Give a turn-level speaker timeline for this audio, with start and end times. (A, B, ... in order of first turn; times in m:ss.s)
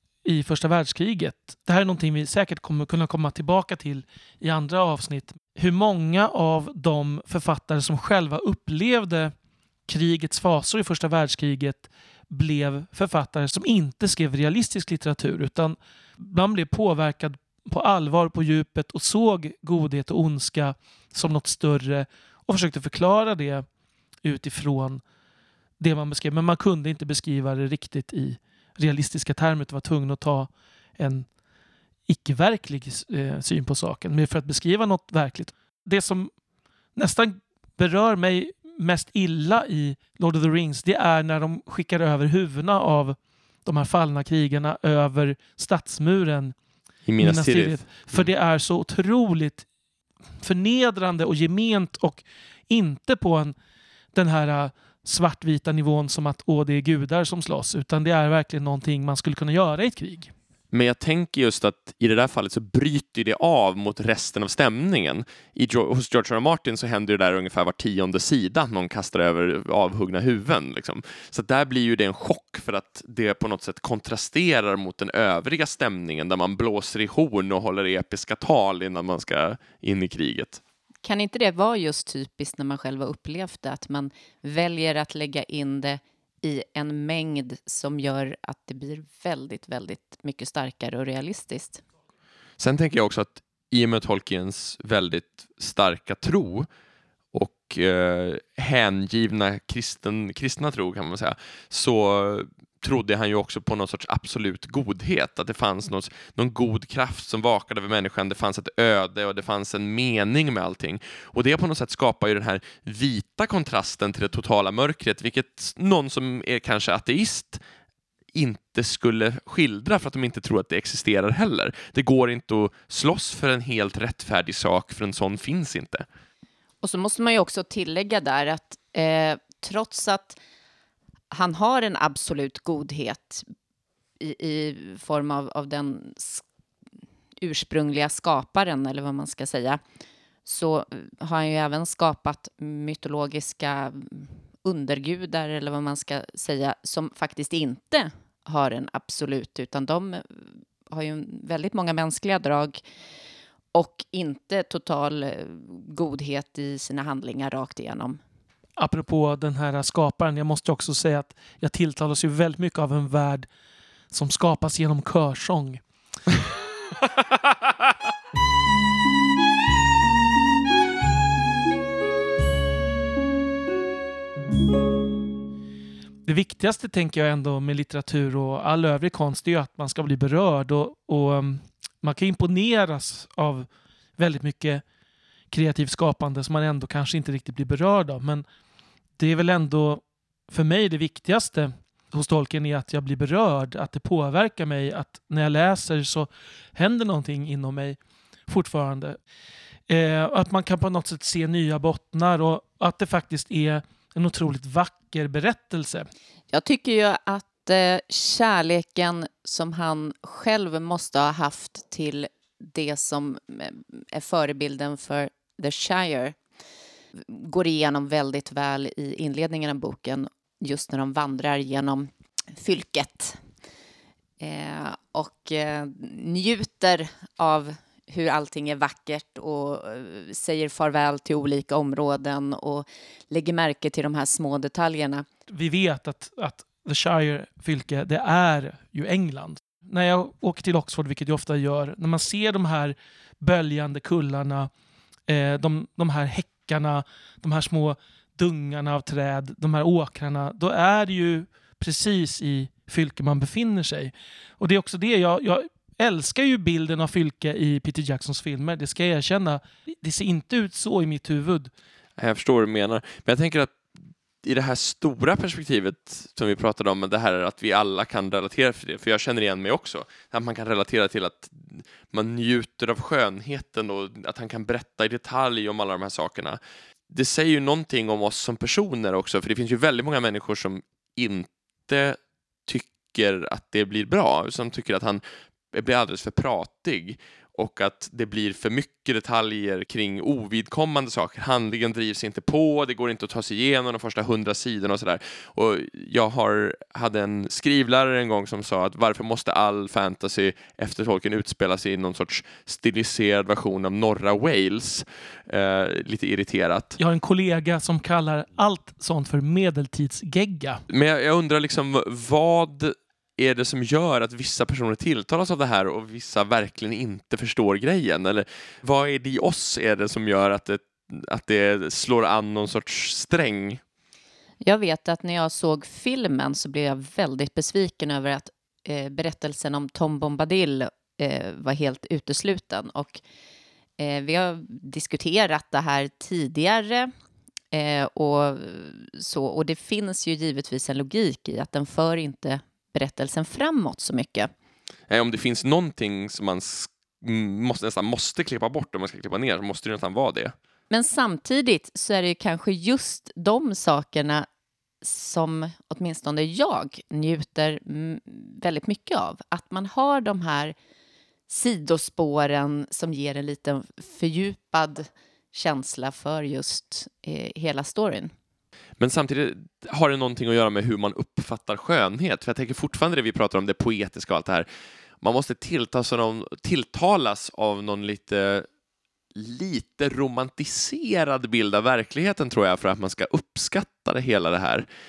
0:00.2-0:09.3 A
0:09.9-0:23.6 A
0:24.2-0:25.0 A
0:25.8-0:31.3 A
0:32.1-0:36.3 A
0:37.0-0:46.5 A
0:47.0-0:48.2 B
0:47.2-0:49.6 A
0:50.4-0:53.5 A
0:54.1-1:00.3 A
1:00.7-1:20.6 B
1:21.0-1:31.8 C
1:32.6-1:36.7 B
1:37.3-1:57.6 B
1:58.3-2:06.0 B
2:06.8-2:10.4 C
2:11.3-2:13.4 C
2:14.2-2:16.4 C
2:17.4-2:19.8 C
2:20.4-2:32.8 C
2:33.7-2:38.2 C
2:38.8-2:43.5 A
2:44.1-2:45.8 A
2:56.2-3:04.8 A
3:05.5-3:08.4 A
3:09.2-3:19.2 A
3:19.9-3:26.1 A
3:26.5-3:36.4 C
3:37.2-3:43.4 C
3:44.4-3:55.2 C
3:55.5-4:04.7 A
4:05.3-4:21.7 A
4:22.2-4:23.8 B
4:24.4-4:36.6 B
4:37.1-5:07.0 B
5:07.0-5:10.8 A
5:10.9-5:23.8 B
5:24.6-5:33.2 C
5:34.0-5:37.1 C
5:37.7-5:44.5 C
5:45.1-5:50.5 B
5:50.9-5:54.5 C
5:55.0-6:00.7 C
6:01.5-6:08.3 C
6:09.0-6:14.7 B
6:15.2-6:18.7 B
6:19.3-6:24.8 B